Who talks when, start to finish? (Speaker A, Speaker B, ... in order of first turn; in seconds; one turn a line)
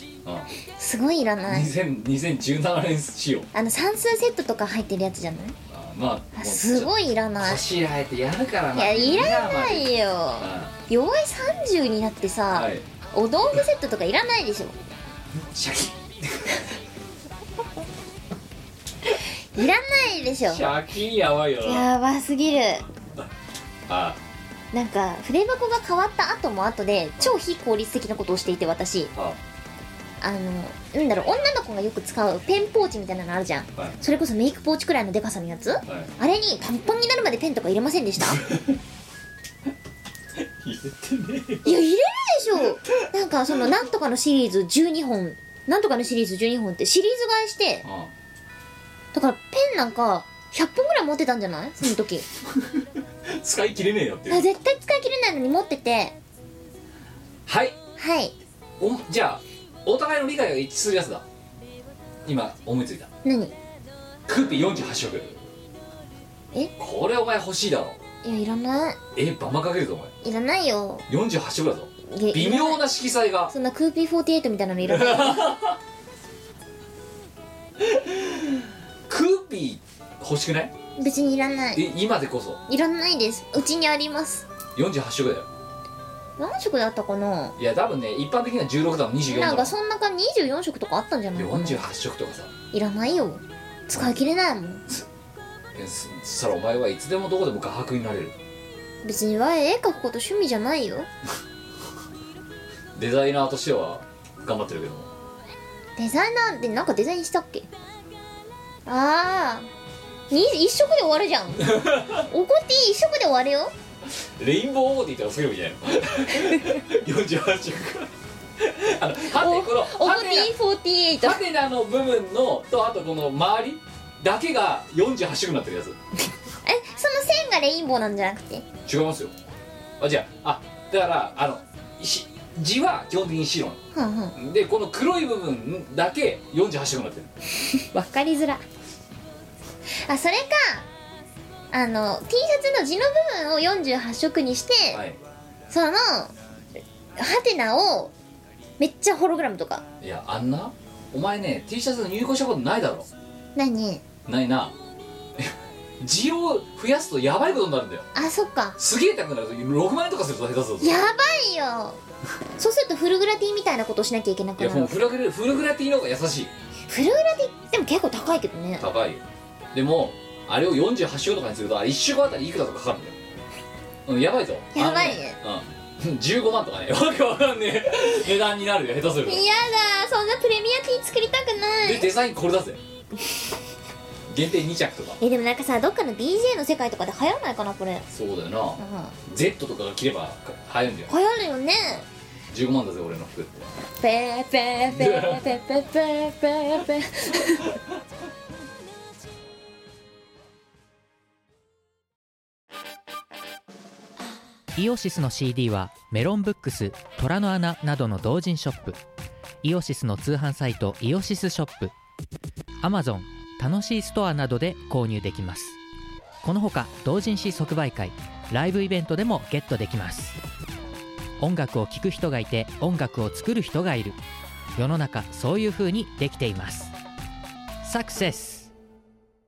Speaker A: 0.8-1.7
Speaker B: 1.4-3.5
Speaker A: 3.5-5.6
Speaker B: 5.7-10.7
Speaker A: 6.3-7.6
Speaker A: 8.7-14.8
Speaker B: 12.5-12.8
Speaker B: 15.3-16.6
Speaker A: 19.1-20.6
Speaker B: 20.4-21.9
Speaker A: 21.6-22.9
Speaker B: 23.9-24.2
Speaker A: 24.7-29.1
Speaker B: 29.1-29.4
Speaker A: 30.2-38.4
Speaker B: 35.9-36.1
Speaker B: 38.3-38.8
Speaker B: 40.4-41.8
Speaker A: 41.6-47.8
Speaker B: 47.8-48.1
Speaker A: 49.1-52.2
Speaker B: 52.5-54.5
Speaker A: 54.3-56.1
Speaker B: 57.5-57.8
Speaker A: 58.0-58.3
Speaker B: 58.8-61.2
Speaker B: 62.2-63.1
Speaker A: 63.2-63.5
Speaker B: 64.2-65.4
Speaker B: 66.8-68.0
Speaker A: 68.2-69.0
Speaker B: 69.1-70.1
Speaker A: 70.2-71.0
Speaker B: 71.1-73.5
Speaker A: 72.1-72.8
Speaker A: 73.5-75.6
Speaker B: 74.8-75.8
Speaker B: 77.8-80.7
Speaker A: 81.0-81.8
Speaker B: 81.7-82.6
Speaker A: 82.7-84.4
Speaker B: 84.7-85.5
Speaker A: 86.4-87.5
Speaker B: 87.6-89.7
Speaker A: 89.3-91.8
Speaker B: 91.3-92.5
Speaker A: 92.7-94.8
Speaker B: 95.7-98.3
Speaker A: 99.0-101.1
Speaker B: 102.9-105.1
Speaker A: 106.0-107.7
Speaker A: 108.8-109.7
Speaker A: 110.3-113.7
Speaker B: 111.5-112.3
Speaker B: 114.1-120.5
Speaker A: 119.3-121.4
Speaker B: 121.2-126.0
Speaker A: 126.6-128.7
Speaker B: 128.8-129.3
Speaker B: 130.0-133.8
Speaker A: 133.9-134.3
Speaker B: 134.3-137.3
Speaker A: 137.7-138.6
Speaker A: 139.9-140.9
Speaker A: 141.7-145.0
Speaker B: 144.9-145.2
Speaker A: 145.7-146.3
Speaker A: 147.2-148.1
Speaker A: 148.8-149.8
Speaker B: 150.0-153.1
Speaker A: 153.5-154.0
Speaker B: 154.2-154.7
Speaker B: 155.4-158.1
Speaker A: 158.1-158.8
Speaker B: 158.8-161.0
Speaker A: 160.8-162.0
Speaker A: 162.6-165.0
Speaker B: 164.6-166.5
Speaker A: 166.9-168.9
Speaker B: 168.8-173.2
Speaker B: 174.1-179.4
Speaker A: 174.7-175.4
Speaker A: 179.2-182.1
Speaker B: 181.8-182.8
Speaker B: 184.3-185.2
Speaker A: 185.2-188.1
Speaker B: 188.1-191.1
Speaker A: 188.8-189.1
Speaker A: 191.1-192.1
Speaker B: 192.5-193.7
Speaker A: 194.0-197.8
Speaker B: 194.9-195.4
Speaker C: 204.7-209.0
Speaker C: 209.6-211.9
Speaker C: 212.8-215.8
Speaker C: 216.4-220.4
Speaker C: 221.4-224.2
Speaker C: 224.8-226.9
Speaker C: 227.8-228.7